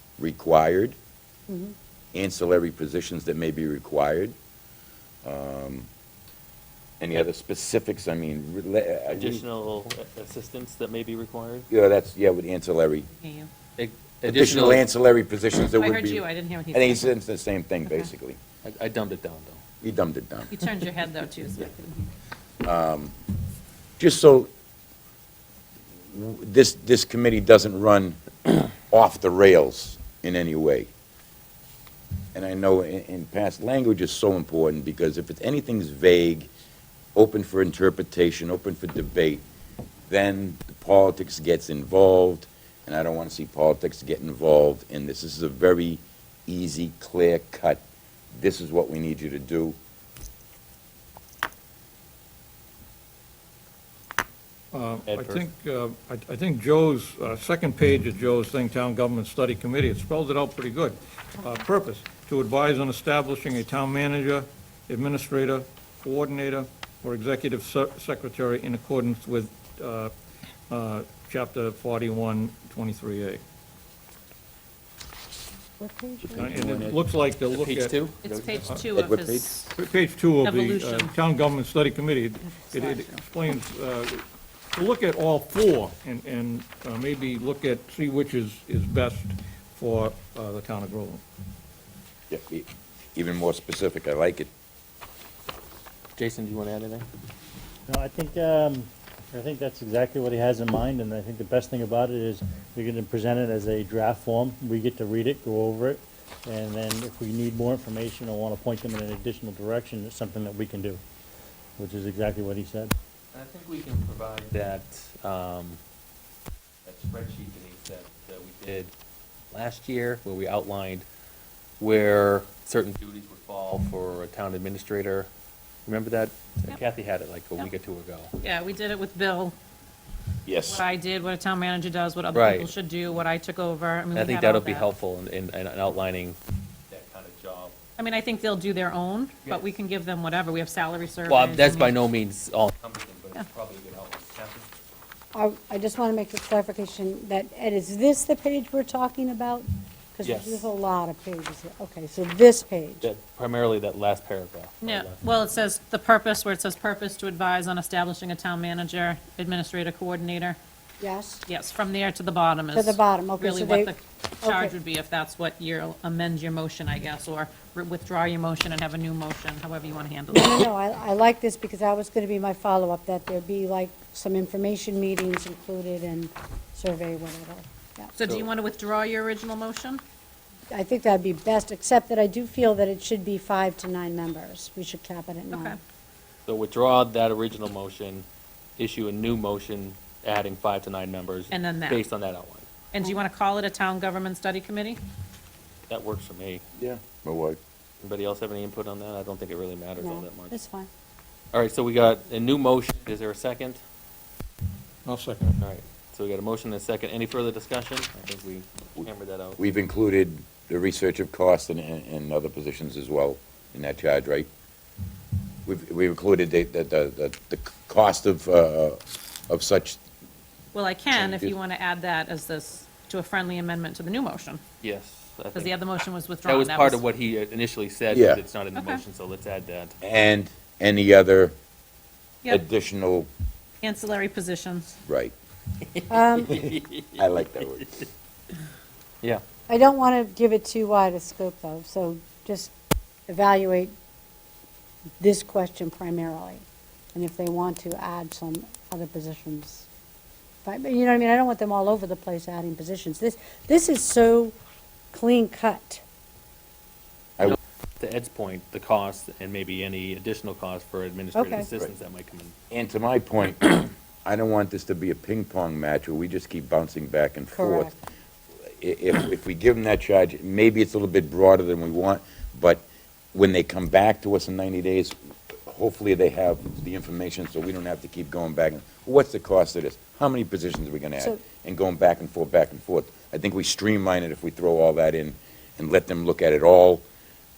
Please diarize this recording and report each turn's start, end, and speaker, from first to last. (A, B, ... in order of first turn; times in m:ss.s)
0:00.2-0:01.0 A
0:02.1-0:04.3 A
0:05.2-0:05.9 A
0:07.0-0:09.4 A
0:09.1-0:11.7 B
0:11.7-0:13.1 A
0:13.2-0:13.5 C
0:13.8-0:14.8 B
0:14.3-0:18.4 A
0:15.8-0:17.1 C
0:18.6-0:19.6 B
0:19.8-0:20.5 A
0:20.5-0:22.1 C
0:22.6-0:23.1 A
0:24.0-0:24.5 A
0:26.1-0:30.9 A
0:32.3-0:36.5 A
0:37.2-0:39.4 A
0:40.1-0:49.8 A
0:54.7-1:10.1 D
0:55.1-0:55.4 B
1:10.7-1:13.4 D
1:15.8-1:16.6 E
1:16.2-1:17.0 A
1:16.4-1:18.0 D
1:17.5-1:18.5 B
1:18.1-1:19.7 C
1:18.6-1:18.9 D
1:18.9-1:19.6 A
1:19.8-1:24.2 D
1:20.4-1:21.1 C
1:22.5-1:23.2 C
1:24.7-1:31.2 D
1:32.3-1:34.5 A
1:36.2-1:37.1 B
1:37.9-1:51.0 F
1:51.8-1:52.9 F
1:53.3-1:55.8 B
1:56.8-1:58.9 B
1:59.5-2:01.0 B
2:01.8-2:05.3 B
2:05.9-2:08.3 B
2:08.4-2:09.6 C
2:10.5-2:10.8 A
2:10.7-2:14.9 C
2:12.4-2:12.7 B
2:14.1-2:16.4 B
2:16.9-2:17.8 B
2:18.0-2:22.0 C
2:19.4-2:19.7 B
2:21.3-2:24.7 B
2:25.3-2:33.1 E
2:30.2-2:30.7 B
2:33.0-2:35.4 B
2:34.8-2:40.6 C
2:41.0-2:41.4 E
2:41.5-2:50.7 C
2:42.7-2:44.8 E
2:50.3-2:58.1 E
2:58.2-3:00.0 C
3:00.7-3:05.8 E
3:05.5-3:05.8 C
3:06.5-3:08.2 B
3:08.8-3:12.8 B
3:11.5-3:12.0 C
3:12.9-3:15.0 C
3:15.9-3:16.6 B
3:16.8-3:17.6 A
3:18.0-3:20.5 B
3:20.0-3:20.9 E
3:21.5-3:23.8 B
3:25.0-3:25.6 D
3:25.6-3:29.6 B
3:29.6-3:34.5 A
3:35.7-3:40.0 A
3:40.7-3:44.6 C
3:41.1-3:41.5 A
3:44.8-3:50.0 B
3:45.6-3:47.0 C
3:48.1-3:48.4 A
3:48.8-3:49.0 C
3:50.0-3:51.6 A
3:52.5-3:53.3 A
3:53.8-3:55.0 C
3:55.1-3:55.3 A
3:55.8-3:57.2 B
3:56.1-3:56.5 E
3:56.6-3:57.9 A
3:59.7-4:02.7 E
4:03.3-4:03.9 E
4:05.2-4:09.9 E
4:10.6-4:14.6 E
4:15.1-4:16.0 E
4:17.5-4:22.5 B
4:21.4-4:21.7 E
4:22.7-4:28.0 A
4:27.5-4:28.0 E
4:28.8-4:47.0 A